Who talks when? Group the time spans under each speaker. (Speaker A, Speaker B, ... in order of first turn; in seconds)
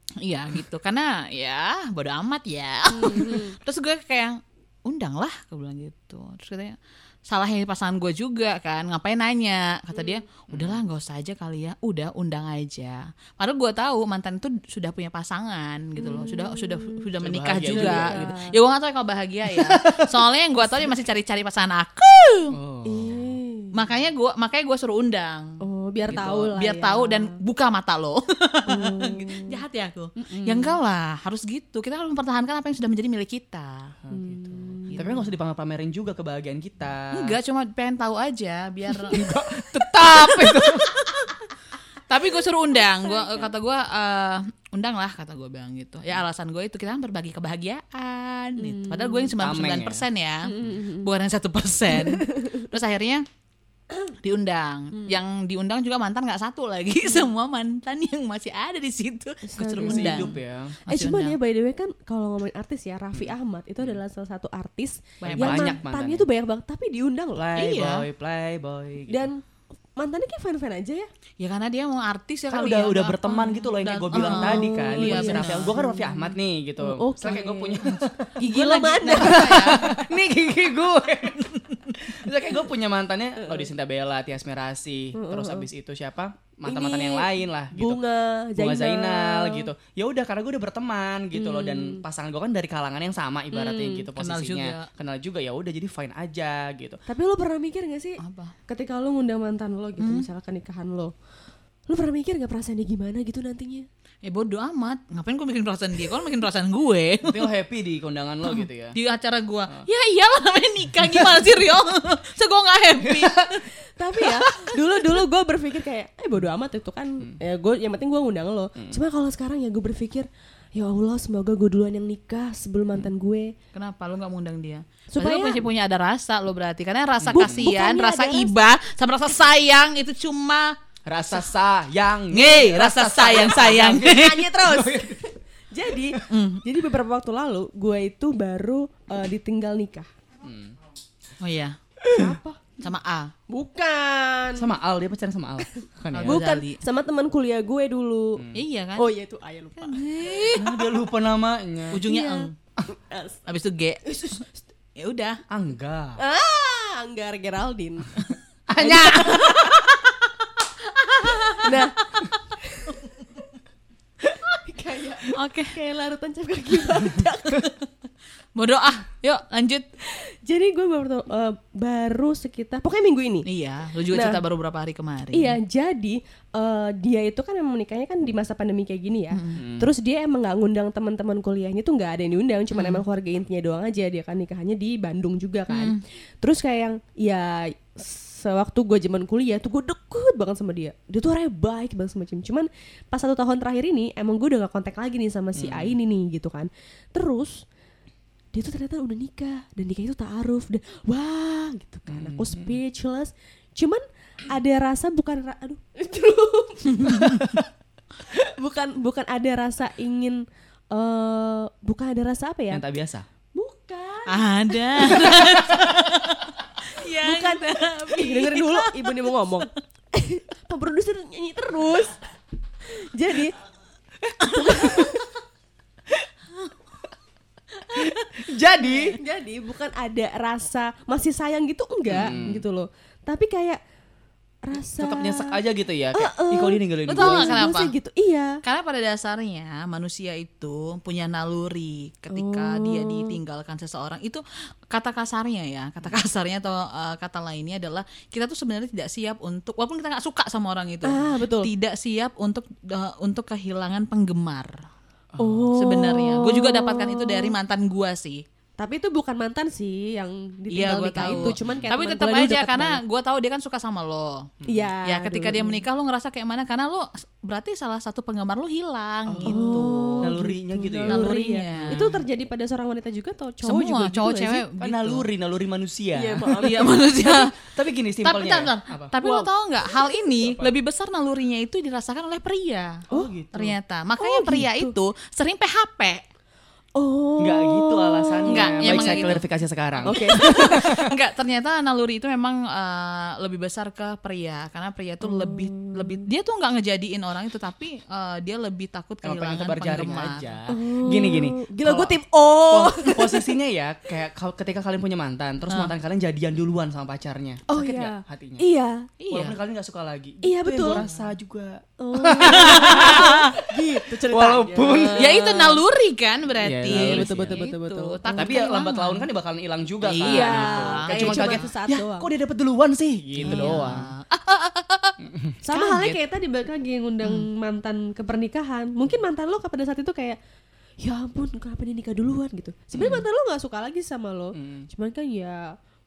Speaker A: 0.2-22.6, 23.7-33.9, 34.9-35.2, 37.1-39.2, 39.9-41.3, 42.1-53.2, 54.2-60.3, 60.9-61.4, 65.2-65.8, 67.6-68.0, 71.4-75.8, 77.9-80.0, 94.2-94.9, 98.2-98.5, 100.0-100.3, 104.2-107.5, 108.5-113.7, 114.2-114.7, 123.7-130.8, 132.3-134.4, 136.3-136.6, 141.4-141.8, 142.8-143.3, 146.1-146.8, 148.5-149.1, 149.8-150.8, 151.9-152.5, 153.5-154.4, 155.0-155.4, 159.4-159.9, 160.8-162.3, 162.9-163.2, 165.3-165.8, 168.6-169.9, 173.5-175.6, 179.3-179.6, 182.7-183.0, 185.7-186.0, 206.9-207.6, 214.3-219.6, 227.9-228.2, 237.1-237.9, 238.6-254.8, 255.7-258.4, 260.7-264.5, 265.0-270.3, 271.1-272.1, 273.6-275.3, 276.5-277.6, 278.2-286.2, 288.5-289.5, 290.0-300.6, 309.2-309.6, 312.4-313.6, 315.2-319.3, 320.0-321.7, 323.4-325.2, 325.7-326.2
Speaker B: 2.9-3.6, 16.0-17.0, 17.6-18.5, 22.9-23.7, 25.6-27.4, 28.7-29.6, 30.2-30.8, 34.1-35.1, 42.9-43.5, 48.6-49.3, 50.5-51.1, 51.9-52.5, 59.5-60.4, 60.9-67.5, 69.1-69.4, 70.0-71.1, 74.1-77.9, 78.4-80.0, 83.4-83.7, 85.2-85.7, 86.7-89.7, 91.3-92.0, 93.5-94.1, 97.1-101.1, 101.9-103.9, 113.9-123.5, 125.1-125.6, 127.3-128.5, 133.9-140.1, 142.1-142.8, 143.5-144.7, 146.2-148.4, 149.0-150.1, 152.1-153.4, 154.1-154.5, 156.2-160.0, 161.6-163.0, 164.5-167.7, 170.0-173.5, 174.1-174.4, 175.3-197.6, 198.5-207.4, 208.3-212.8, 213.5-215.8, 217.1-222.2, 222.9-223.6, 224.5-225.3, 229.1-233.8, 234.6-235.6, 236.1-238.6, 242.3-243.4, 251.0-251.7, 255.4-257.6, 258.8-263.0, 264.7-265.8, 269.4-274.7, 276.1-277.2, 284.2-284.9, 287.0-289.4, 290.1-290.9, 295.2-296.3, 300.7-303.6, 307.7-309.1, 310.4-311.1, 312.0-315.8, 316.9-318.7, 320.2-322.3, 323.4-323.9, 325.6-330.4, 331.0-335.7
Speaker C: 10.5-10.8, 17.2-18.3, 19.5-20.1, 22.5-23.4, 26.1-26.5, 34.0-37.4, 39.1-41.0, 49.4-50.0, 59.8-60.8, 63.1-64.0, 65.3-66.3, 67.3-69.3, 72.5-78.3, 79.2-88.0, 88.6-97.0, 107.2-109.0, 113.0-113.5, 127.2-127.7, 131.1-135.2, 140.4-140.8, 142.0-142.4, 144.6-146.4, 150.6-152.0, 155.5-156.2, 158.7-159.8, 179.6-179.9, 195.6-196.0, 202.1-202.8, 212.7-213.3, 224.2-225.2, 227.9-229.2, 232.1-232.6, 235.0-237.6, 255.3-255.8, 261.2-261.9, 264.6-264.9, 269.3-272.2, 274.8-279.5, 280.4-280.7, 283.1-283.8, 287.4-291.1, 299.2-302.2, 302.7-308.6, 309.3-315.4, 316.6-317.6, 318.4-324.1, 325.2-325.6, 334.6-334.9